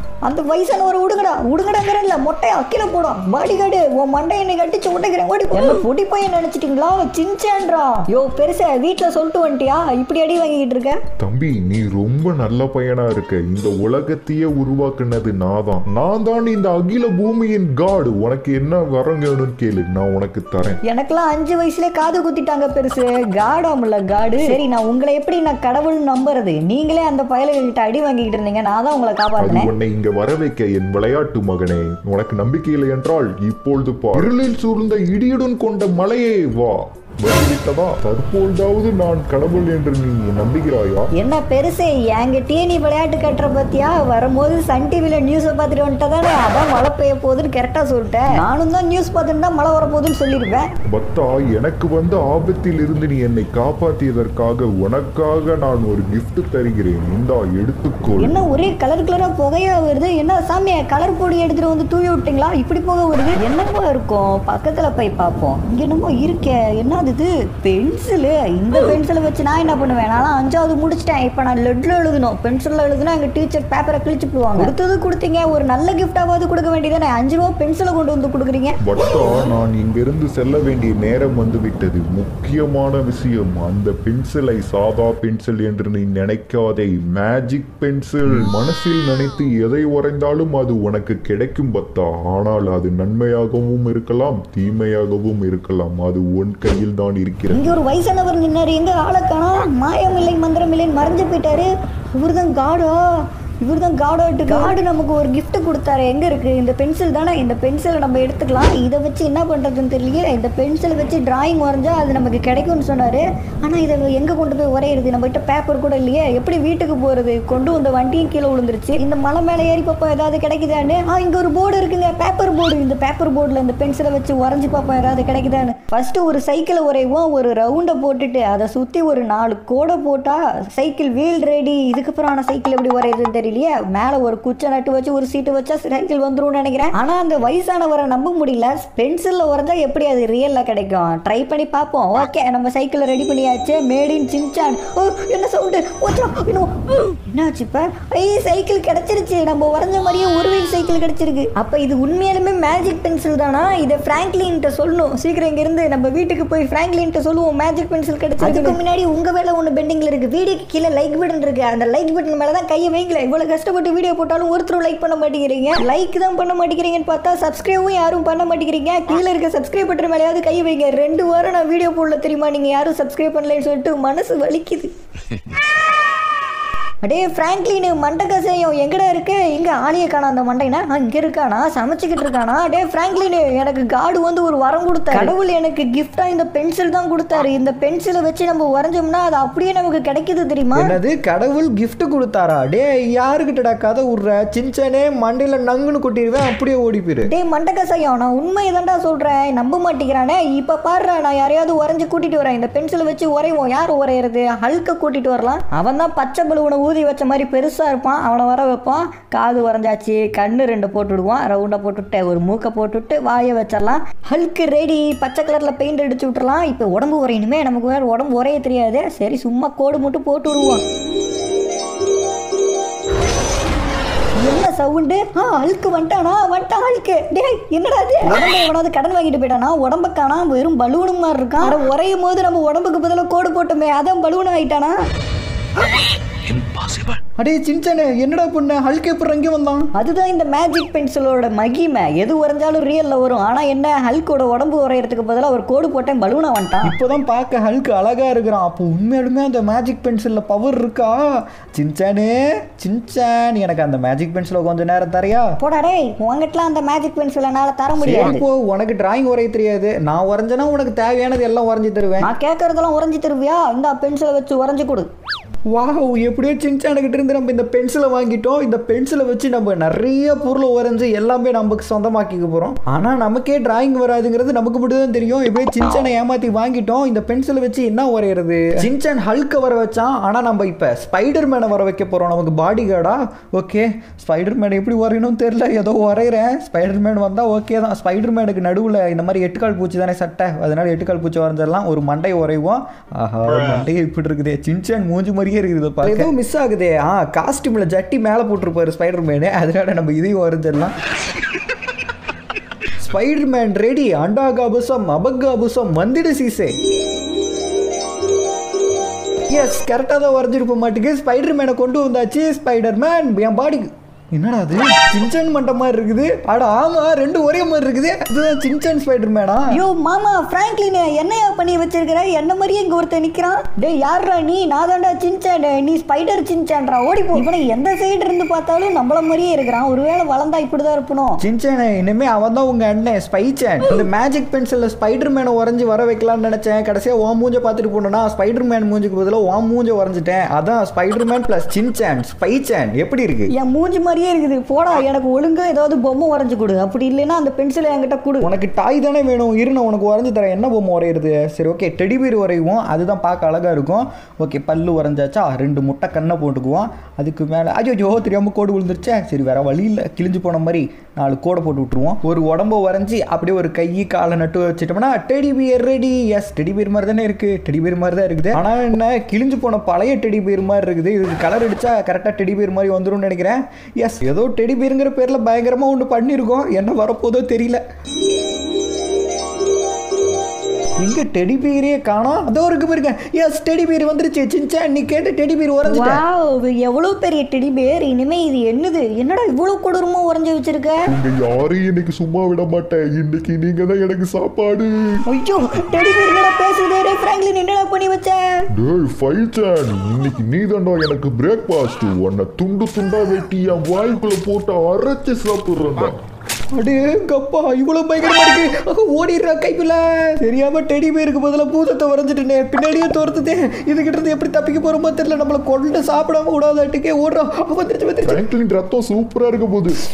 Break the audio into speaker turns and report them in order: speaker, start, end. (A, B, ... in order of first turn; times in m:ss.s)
0:00.2-0:11.0 A
0:11.2-0:20.8 B
0:20.8-0:29.7 A
0:29.4-0:41.1 B
0:41.2-0:50.7 A
0:50.9-0:58.4 B
0:58.2-1:18.8 A
1:18.8-1:37.6 B
1:37.5-2:54.9 A
2:57.0-3:11.0 A
3:10.8-3:17.3 C
3:17.3-3:40.8 A
3:44.4-3:55.0 A
3:57.4-3:59.9 C
4:00.0-4:06.9 A
4:06.8-4:15.5 C
4:15.6-4:18.4 A
4:18.0-4:22.3 C
4:22.2-4:25.1 A
4:25.7-5:01.0 C
5:03.0-5:06.8 C
5:09.5-5:19.8 C
5:19.7-5:31.4 A
5:31.4-5:43.5 C
5:43.5-5:48.5 A
5:48.4-6:17.8 C
6:21.0-6:26.2 C
6:25.9-6:31.1 A
6:31.1-6:35.2 B
6:35.3-6:38.7 A
6:38.8-6:46.2 B
6:46.8-6:58.4 C
6:58.2-7:00.0 B